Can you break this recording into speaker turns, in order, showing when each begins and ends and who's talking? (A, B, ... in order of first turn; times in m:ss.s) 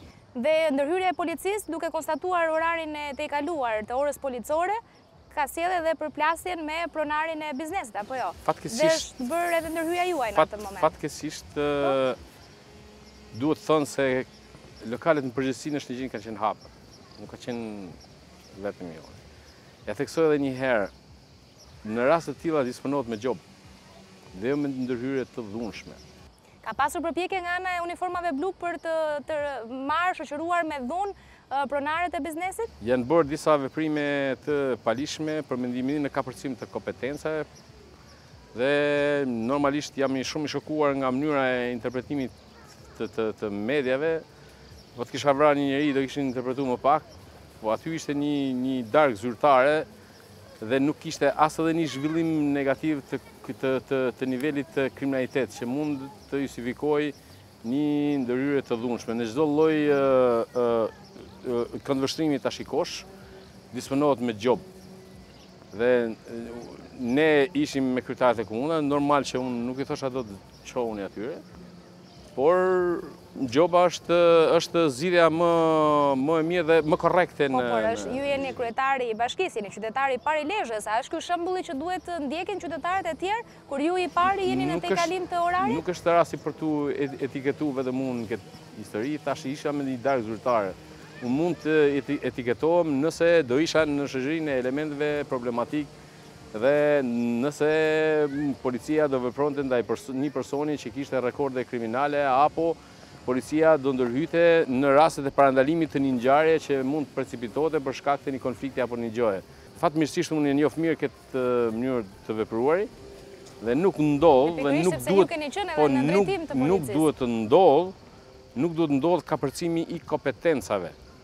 0:00.3-0:04.8 A
0:05.3-0:10.9 A
0:08.4-0:09.1 B
0:10.3-0:12.2 B
0:13.3-0:14.3 B
0:14.8-0:18.0 B
0:18.5-0:19.2 B
0:19.8-0:20.9 B
0:21.8-0:23.4 B
0:24.3-0:26.0 B
0:26.6-0:32.7 A
0:32.8-0:37.5 B
0:38.5-0:42.3 B
0:42.9-0:44.2 B
0:44.9-0:47.1 B
0:47.6-0:49.9 B
0:50.6-1:03.1 B
1:03.7-1:04.6 B
1:05.7-1:11.4 B
1:12.3-1:18.6 B
1:17.5-1:25.8 A
1:24.2-1:35.9 B
1:36.5-1:52.9 B
1:53.6-1:57.9 B
1:54.4-1:57.1 A
1:58.5-2:01.0 B